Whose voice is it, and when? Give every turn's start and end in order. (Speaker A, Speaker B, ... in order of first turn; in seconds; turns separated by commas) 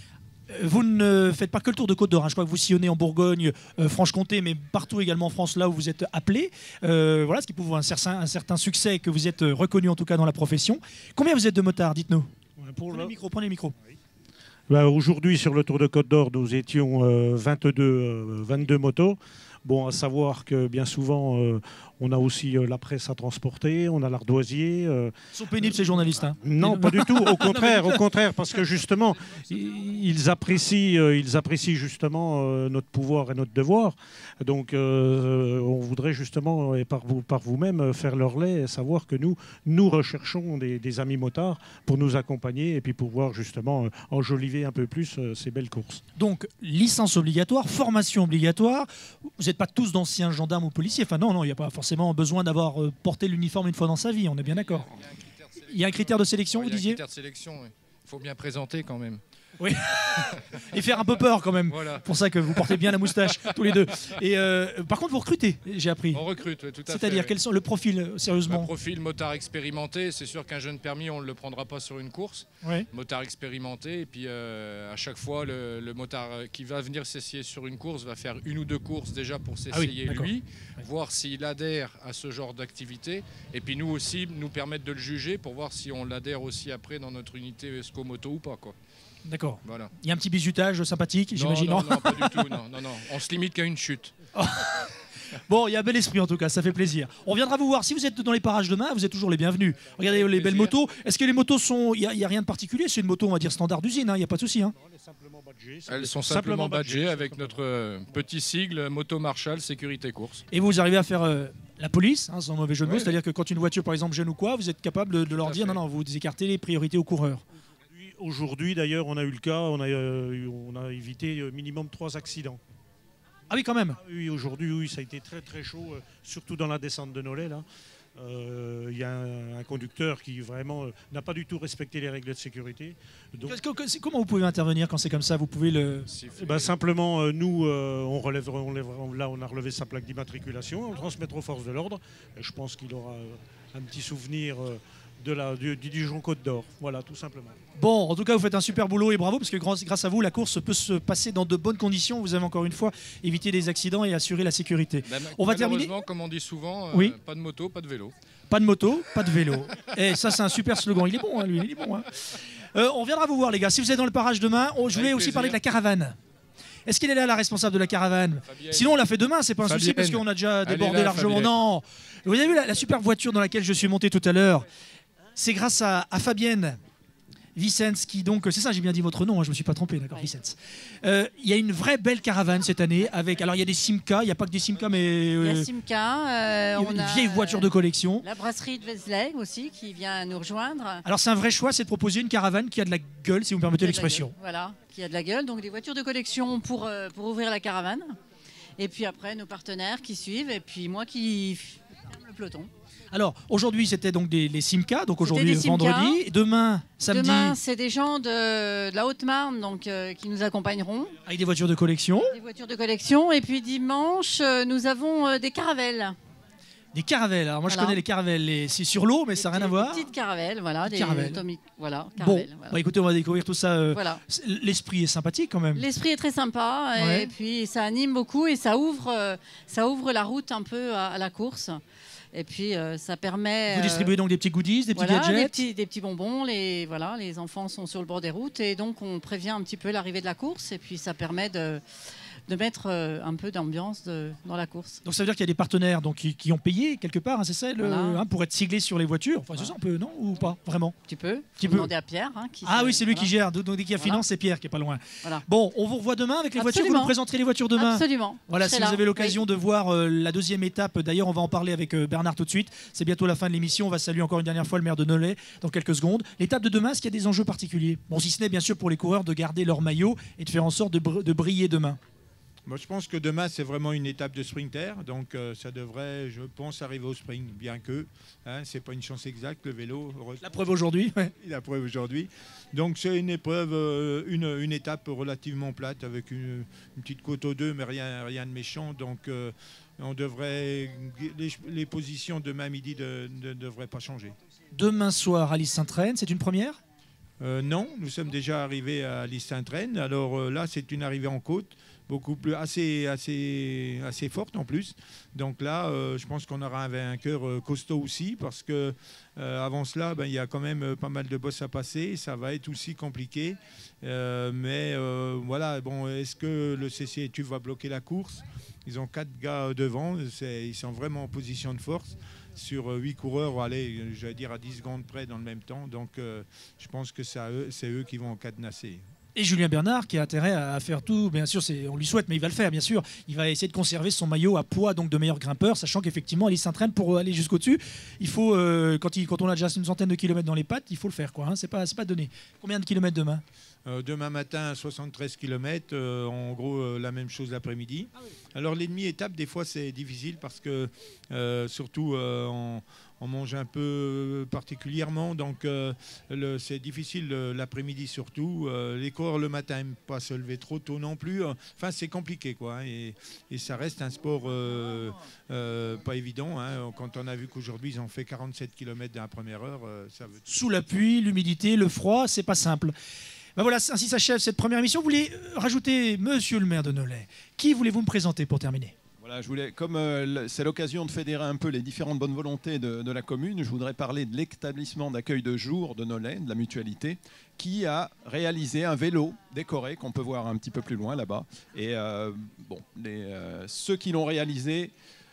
Speaker A: 0.5-12.3, Speaker B: 12.6-13.2, Speaker A: 12.9-13.7, Speaker B: 14.7-46.0, Speaker A: 25.3-28.0, Speaker C: 29.4-29.8, Speaker A: 46.2-54.9, Speaker C: 54.5-59.2, Speaker A: 55.7-57.0, Speaker A: 59.6-66.2, Speaker C: 60.1-60.5, Speaker C: 61.7-63.8, Speaker C: 66.1-67.3, Speaker A: 66.9-68.7, Speaker C: 68.5-88.8, Speaker A: 79.7-80.3, Speaker A: 89.3-92.6, Speaker C: 89.6-89.9, Speaker C: 91.3-94.2, Speaker A: 94.3-104.7, Speaker C: 100.1-100.8, Speaker B: 104.8-107.6, Speaker C: 105.9-110.4, Speaker A: 110.5-117.4, Speaker C: 112.8-113.2, Speaker C: 115.3-115.8, Speaker B: 117.9-122.6, Speaker A: 123.5-124.0, Speaker B: 124.0-127.7, Speaker B: 128.2-133.6, Speaker A: 133.4-136.1, Speaker C: 136.1-136.8, Speaker B: 136.3-147.6, Speaker A: 147.8-155.9, Speaker C: 155.1-158.1, Speaker A: 156.9-157.2, Speaker A: 158.5-166.2, Speaker C: 164.9-165.6, Speaker A: 166.9-174.7, Speaker C: 168.4-169.0, Speaker C: 169.6-171.5, Speaker A: 175.4-176.8, Speaker A: 177.6-185.7, Speaker D: 185.4-191.0, Speaker A: 186.7-188.3, Speaker A: 191.1-194.3, Speaker D: 193.8-198.2, Speaker D: 198.8-202.7, Speaker A: 203.1-207.6, Speaker D: 205.2-206.2, Speaker D: 207.1-211.2, Speaker A: 211.3-212.3, Speaker D: 212.3-216.2, Speaker A: 216.9-220.1, Speaker D: 217.7-218.0, Speaker D: 219.4-222.8, Speaker A: 220.8-221.4, Speaker A: 222.2-225.9, Speaker D: 223.9-224.2, Speaker D: 225.7-231.8, Speaker A: 226.9-227.3, Speaker D: 232.3-234.2, Speaker A: 233.7-235.6, Speaker D: 234.9-241.8, Speaker D: 242.5-245.0, Speaker A: 245.0-250.9, Speaker D: 247.8-248.2, Speaker D: 251.1-253.3, Speaker A: 251.6-251.9, Speaker A: 252.6-272.0, Speaker D: 254.0-254.2, Speaker D: 256.6-257.2, Speaker D: 257.8-259.4, Speaker E: 272.7-280.6, Speaker A: 280.4-281.3, Speaker E: 281.4-294.4, Speaker A: 294.7-296.8, Speaker E: 297.4-329.0, Speaker A: 329.4-343.4, Speaker E: 343.9-370.5, Speaker A: 370.5-372.9, Speaker A: 373.6-378.9, Speaker F: 379.2-394.9